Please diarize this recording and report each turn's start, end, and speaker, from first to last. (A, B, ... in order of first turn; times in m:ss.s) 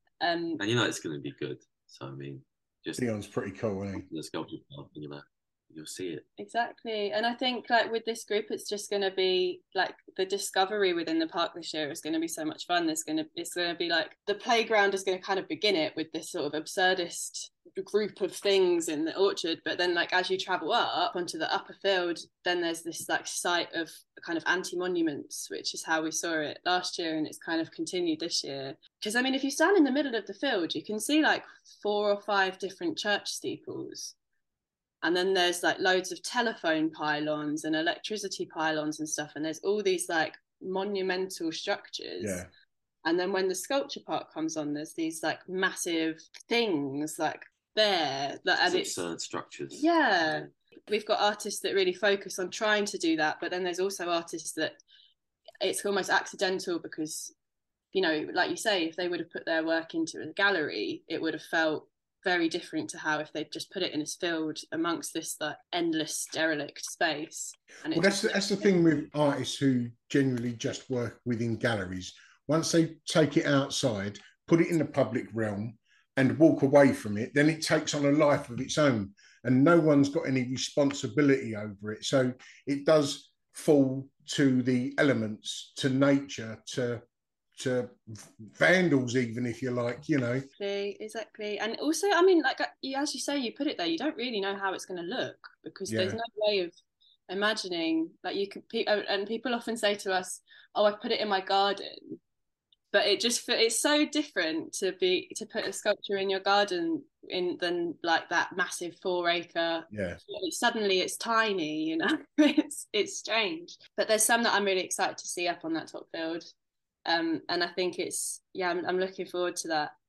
0:00.2-0:00.6 A
0:00.6-0:03.1 B
0:03.0-0:04.0 C
0:04.0-0:06.2 B
0:06.4-0:34.1 A
0:35.0-0:42.4 A
0:42.2-0:42.5 C
0:43.0-0:49.0 A
0:48.6-0:50.5 B
0:49.7-0:54.8 A
0:55.6-0:57.3 A
0:57.9-1:08.8 A
1:07.9-1:27.0 C
1:27.6-1:30.5 C
1:30.6-1:36.7 A
1:35.9-1:36.2 C
1:37.3-1:42.2 A
1:42.9-1:56.5 A
1:49.9-1:50.2 C
1:57.1-1:59.9 A